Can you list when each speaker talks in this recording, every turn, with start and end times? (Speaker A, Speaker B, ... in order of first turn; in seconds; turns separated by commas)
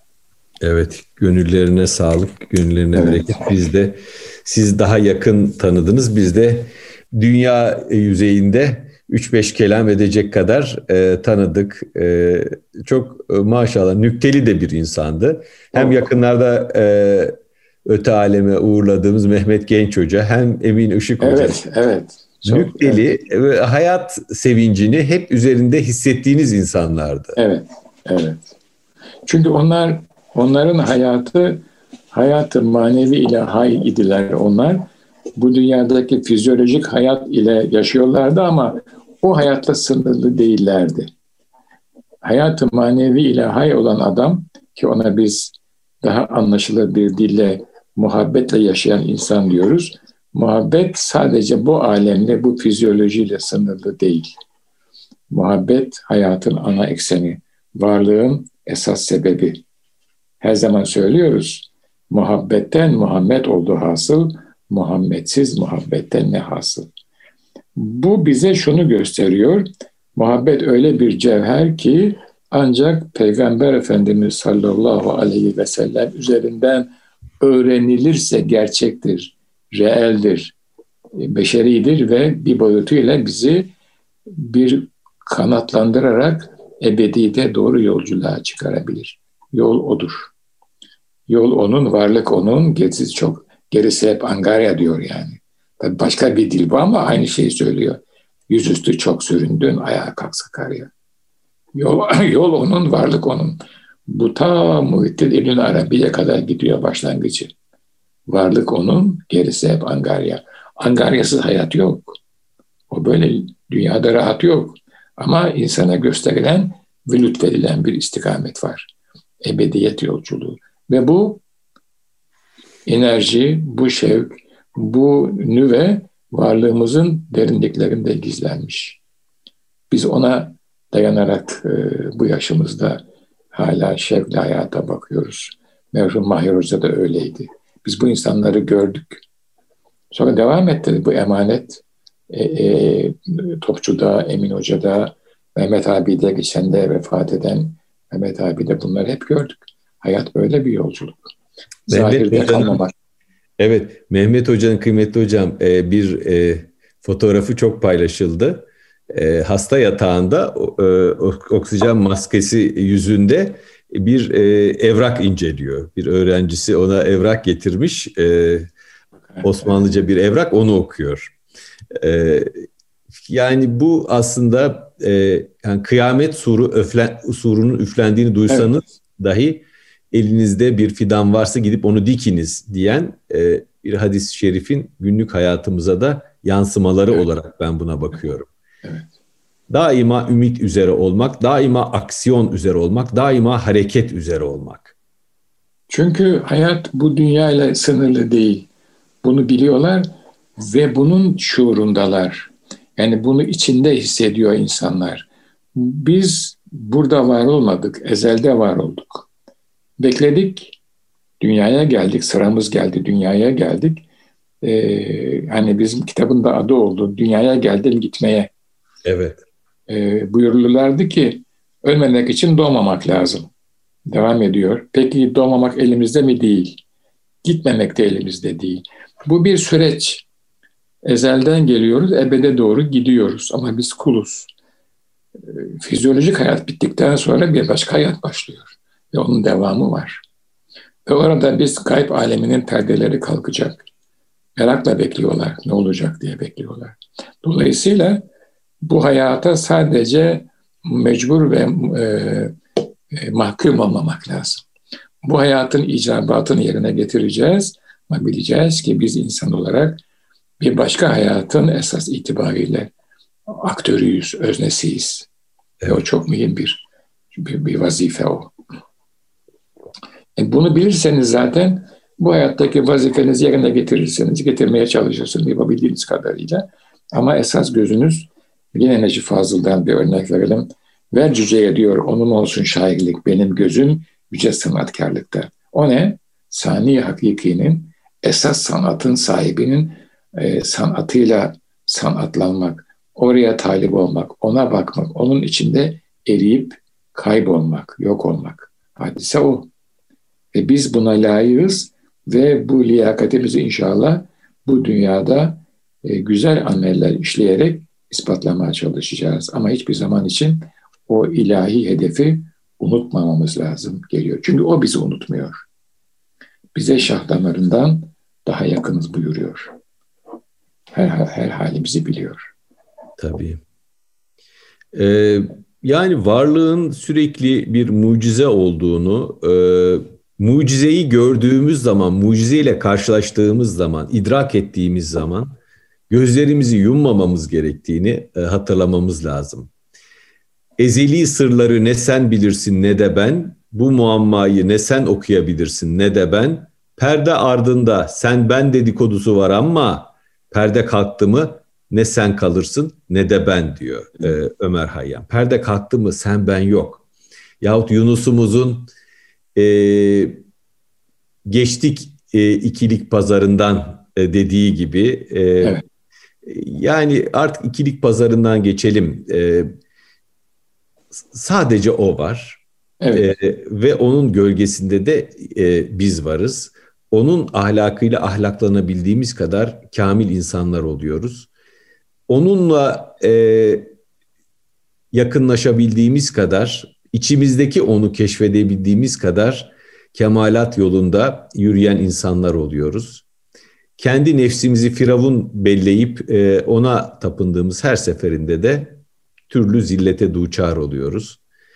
Speaker A: 0.6-17.4, Speaker B: 3.0-3.2, Speaker B: 15.7-16.1, Speaker A: 17.9-21.6, Speaker B: 21.2-23.1, Speaker A: 22.4-27.4, Speaker B: 27.4-28.5, Speaker B: 29.2-41.1, Speaker B: 42.2-54.3, Speaker B: 55.3-59.6, Speaker B: 60.4-66.9, Speaker B: 67.8-76.9, Speaker B: 77.4-80.6, Speaker B: 81.2-83.7, Speaker B: 84.3-90.3, Speaker B: 91.3-100.9, Speaker B: 101.8-107.5, Speaker B: 108.3-112.2, Speaker B: 112.9-118.9, Speaker B: 119.4-121.4, Speaker B: 122.9-129.0, Speaker B: 129.9-133.0, Speaker B: 133.5-139.2, Speaker B: 140.1-151.3, Speaker B: 151.9-152.9, Speaker A: 151.9-152.8, Speaker A: 153.6-168.7, Speaker B: 169.3-169.7, Speaker A: 169.4-171.3, Speaker A: 172.0-172.6, Speaker A: 173.3-188.5, Speaker A: 189.7-194.9, Speaker B: 195.9-198.7, Speaker B: 199.2-200.1, Speaker B: 200.6-209.3, Speaker B: 210.0-210.8, Speaker B: 211.4-214.0, Speaker B: 214.6-218.5, Speaker A: 219.1-219.4, Speaker B: 219.9-223.5, Speaker B: 224.1-226.8, Speaker B: 227.4-230.3, Speaker B: 231.1-234.5, Speaker B: 235.5-240.2, Speaker B: 241.1-243.8, Speaker B: 244.6-248.2, Speaker B: 248.8-252.5, Speaker B: 253.1-254.7, Speaker B: 255.2-260.0, Speaker B: 260.6-262.9, Speaker B: 263.5-265.3, Speaker B: 265.9-268.5, Speaker B: 270.4-299.7, Speaker B: 300.5-315.6, Speaker B: 316.7-319.7, Speaker B: 320.9-322.5, Speaker A: 323.2-323.6, Speaker A: 324.9-335.6, Speaker A: 336.1-339.7, Speaker A: 340.8-357.0, Speaker A: 357.6-358.9, Speaker A: 359.6-360.4, Speaker A: 361.5-365.8, Speaker A: 366.4-369.7, Speaker A: 371.3-381.5, Speaker B: 373.0-373.3, Speaker A: 382.3-383.9, Speaker A: 385.1-393.2, Speaker A: 394.0-401.4